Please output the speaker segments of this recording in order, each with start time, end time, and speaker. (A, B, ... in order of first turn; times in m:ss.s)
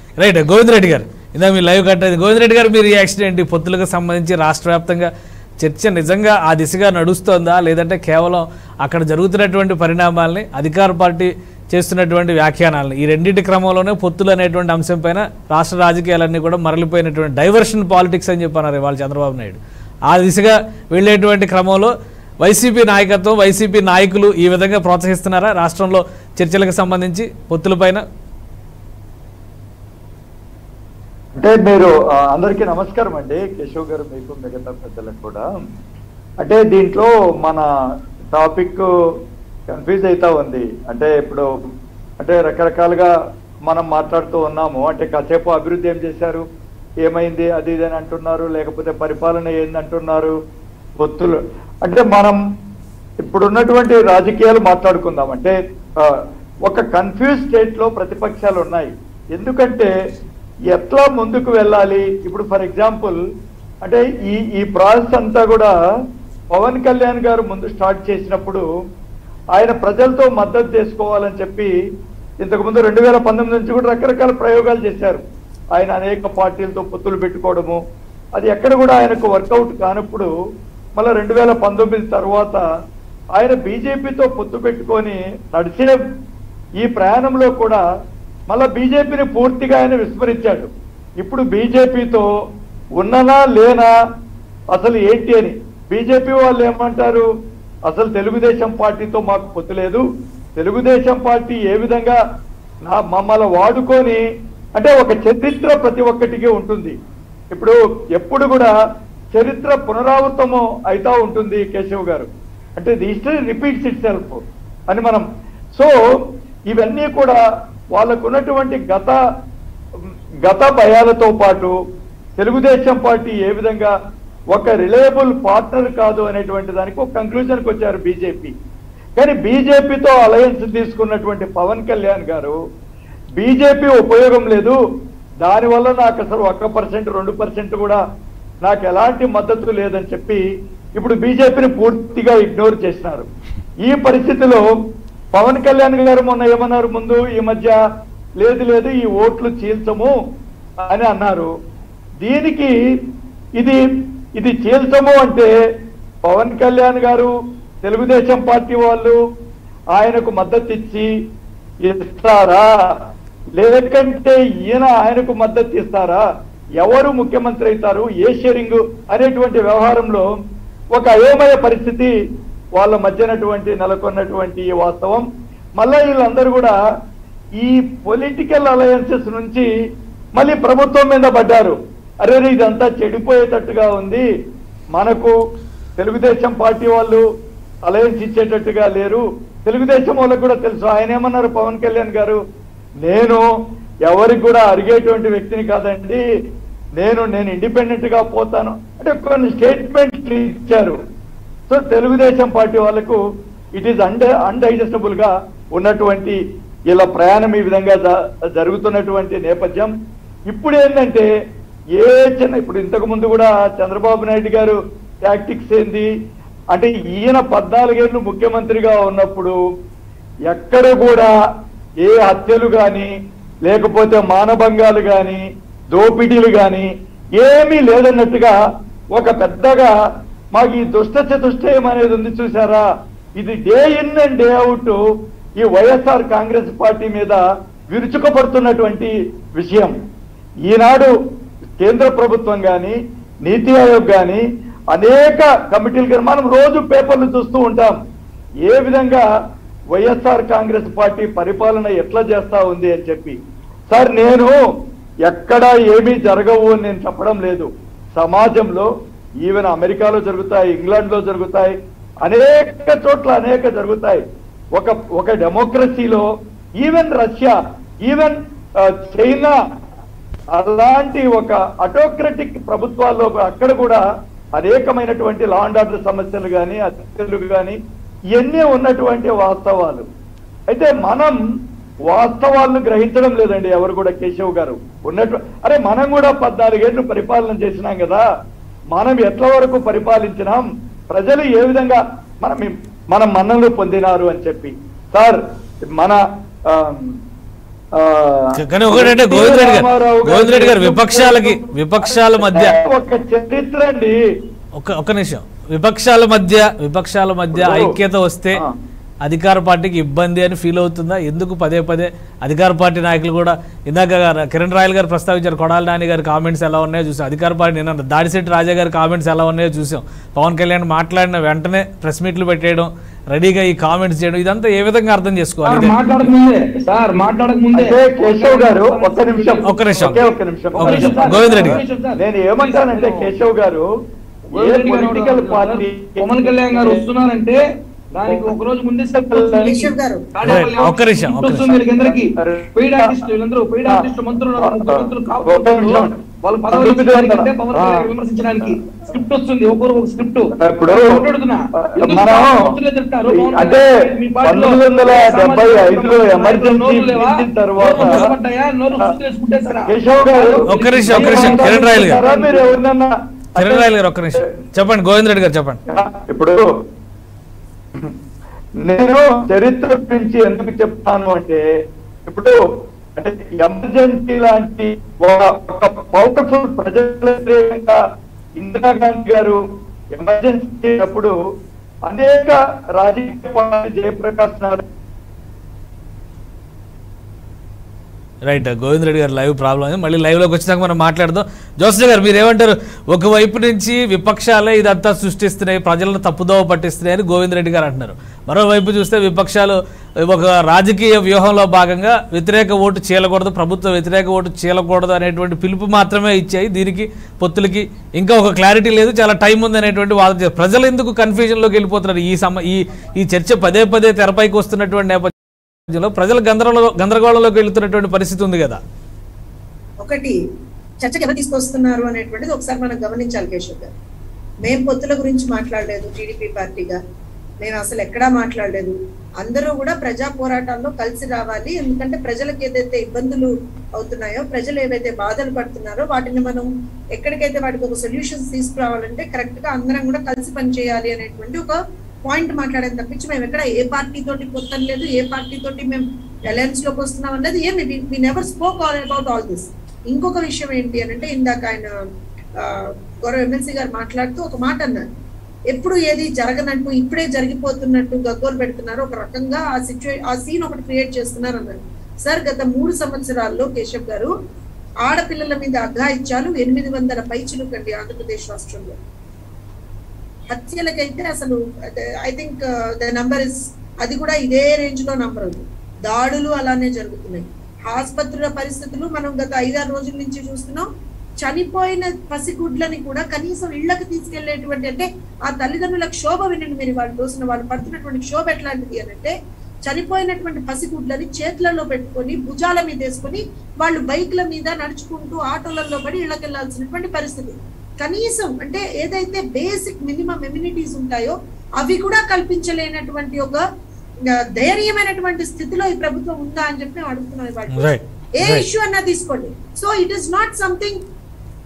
0:00.2-0:28.0 A
0:31.4-0:35.5 B
0:36.4-0:37.7 B
0:38.3-0:38.9 B
0:39.7-0:41.5 B
0:42.2-0:43.1 B
0:43.7-0:46.4 B
0:47.0-0:50.4 B
0:51.0-0:52.4 B
0:53.2-0:59.9 B
1:00.7-1:03.2 B
1:03.8-1:05.8 B
1:06.5-1:08.6 B
1:09.6-1:11.7 B
1:12.4-1:15.2 B
1:15.8-1:17.8 B
1:18.4-1:20.3 B
1:21.0-1:22.6 B
1:23.3-1:26.0 B
1:26.8-1:27.8 B
1:28.5-1:32.3 B
1:33.0-1:33.9 B
1:34.7-1:37.3 B
1:37.9-1:40.0 B
1:40.6-1:42.2 B
1:42.9-1:44.2 B
1:44.8-1:47.0 B
1:47.5-1:48.7 B
1:49.3-1:56.2 B
1:56.7-1:57.4 B
1:58.0-1:59.2 B
2:00.4-2:01.8 B
2:02.4-2:03.9 B
2:04.5-2:08.5 B
2:09.2-2:12.6 B
2:13.4-2:14.8 B
2:15.4-2:18.0 B
2:18.6-2:23.3 B
2:23.8-2:24.7 B
2:25.3-2:27.8 B
2:28.4-2:30.2 B
2:30.8-2:31.5 B
2:32.2-2:32.8 B
2:34.4-2:35.5 B
2:36.2-2:37.3 B
2:37.8-2:39.2 B
2:40.0-2:41.1 B
2:41.8-2:46.2 B
2:46.8-2:50.3 B
2:50.9-2:52.2 B
2:52.8-2:55.3 B
2:55.8-2:56.8 B
2:57.6-2:59.7 B
3:00.4-3:04.3 B
3:05.0-3:05.4 B
3:06.0-3:07.3 B
3:07.9-3:12.4 B
3:13.1-3:13.4 B
3:14.1-3:16.2 B
3:17.0-3:21.0 B
3:21.7-3:23.2 B
3:23.8-3:29.9 B
3:30.5-3:31.3 B
3:32.0-3:36.1 B
3:36.7-3:39.6 B
3:40.5-3:41.3 B
3:42.0-3:43.1 B
3:43.7-3:48.6 B
3:49.2-3:49.9 B
3:50.6-3:52.8 B
3:53.4-3:55.0 B
3:55.6-4:00.0 B
4:00.7-4:01.1 B
4:01.8-4:08.0 B
4:08.7-4:09.3 B
4:10.0-4:13.4 B
4:13.9-4:14.6 B
4:15.3-4:18.9 B
4:19.4-4:24.2 B
4:24.8-4:26.3 B
4:26.8-4:29.6 B
4:30.5-4:34.0 B
4:34.6-4:37.8 B
4:38.3-4:40.1 B
4:40.7-4:41.4 B
4:42.1-4:48.2 B
4:48.9-4:55.4 B
4:56.0-4:57.2 B
4:58.0-5:04.2 B
4:58.6-5:02.8 A
5:04.8-5:08.6 A
5:07.5-5:08.0 B
5:09.2-5:26.0 A
5:25.6-5:33.3 C
5:27.7-5:33.9 B
5:29.6-5:30.2 A
5:30.8-5:31.8 A
5:34.5-5:37.0 B
5:34.6-5:37.6 C
5:38.2-5:39.8 C
5:38.3-5:38.5 B
5:39.1-5:40.9 B
5:39.6-5:40.3 D
5:40.4-6:02.8 C
5:40.4-5:41.8 A
5:41.8-5:43.2 B
5:44.6-5:46.2 B
5:46.7-5:48.8 B
5:50.6-5:51.2 B
5:51.8-5:58.2 B
5:57.9-5:58.3 A
5:59.9-6:04.4 B
6:00.7-6:02.2 A
6:03.6-6:05.8 A
6:05.9-6:06.7 B
6:08.8-6:11.6 B
6:12.3-6:12.6 B
6:13.2-6:18.0 B
6:18.6-6:19.6 B
6:20.1-6:21.4 B
6:22.1-6:24.8 B
6:28.4-6:55.4 A
6:55.9-6:58.8 A
7:00.0-7:00.4 D
7:01.0-7:03.9 D
7:04.6-7:07.0 D
7:07.6-7:31.9 D
7:32.6-7:35.0 D
7:35.7-7:44.3 D
7:45.1-7:49.0 D
7:50.5-8:00.9 D
8:01.4-8:09.4 D
8:09.9-8:23.6 D
8:24.2-8:31.0 D
8:27.7-8:28.6 A